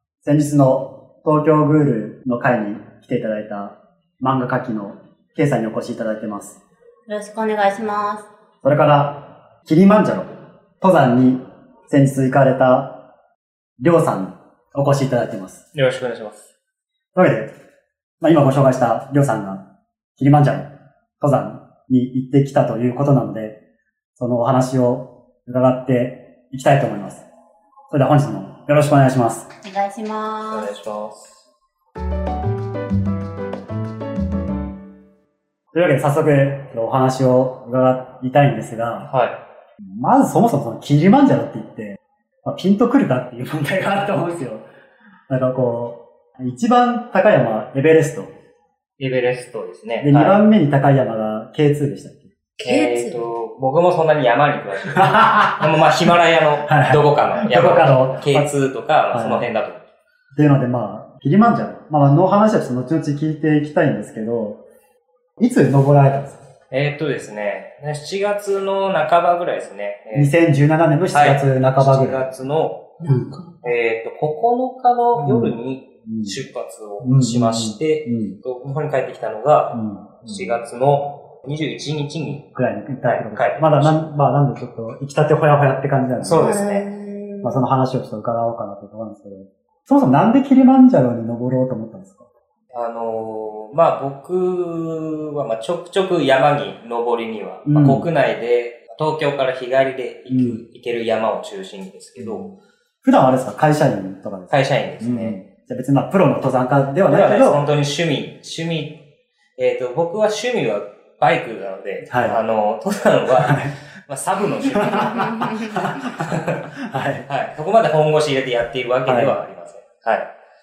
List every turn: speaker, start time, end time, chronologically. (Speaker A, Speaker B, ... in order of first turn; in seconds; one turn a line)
Speaker A: 0.2-6.6
Speaker B: 7.1-8.3
Speaker A: 8.6-13.0
Speaker A: 13.8-15.6
Speaker C: 15.7-16.4
Speaker A: 17.1-17.5
Speaker A: 18.2-23.6
Speaker A: 24.2-27.2
Speaker A: 27.9-29.5
Speaker B: 29.6-30.7
Speaker C: 30.5-31.3
Speaker A: 35.7-39.1
Speaker C: 39.1-39.4
Speaker A: 39.8-44.7
Speaker A: 45.3-48.3
Speaker C: 49.0-50.4
Speaker A: 50.0-52.3
Speaker B: 52.6-53.3
Speaker C: 52.6-59.8
Speaker A: 55.0-56.1
Speaker A: 56.6-58.5
Speaker A: 59.1-59.5
Speaker A: 60.4-64.6
Speaker A: 65.4-66.4
Speaker C: 66.7-70.3
Speaker A: 70.1-72.2
Speaker C: 71.1-72.9
Speaker B: 73.0-73.6
Speaker C: 73.6-82.5
Speaker A: 75.2-76.4
Speaker A: 77.0-78.4
Speaker A: 79.7-80.6
Speaker A: 82.5-86.5
Speaker C: 83.0-84.0
Speaker C: 86.2-86.9
Speaker B: 86.3-87.7
Speaker A: 87.4-92.2
Speaker C: 92.7-102.5
Speaker A: 97.7-98.1
Speaker A: 100.3-100.6
Speaker A: 102.2-107.6
Speaker C: 104.5-105.4
Speaker C: 107.1-109.0
Speaker C: 109.6-116.6
Speaker A: 112.1-112.4
Speaker A: 113.4-113.8
Speaker A: 114.8-117.3
Speaker B: 114.9-115.8
Speaker C: 117.3-120.3
Speaker A: 119.1-119.3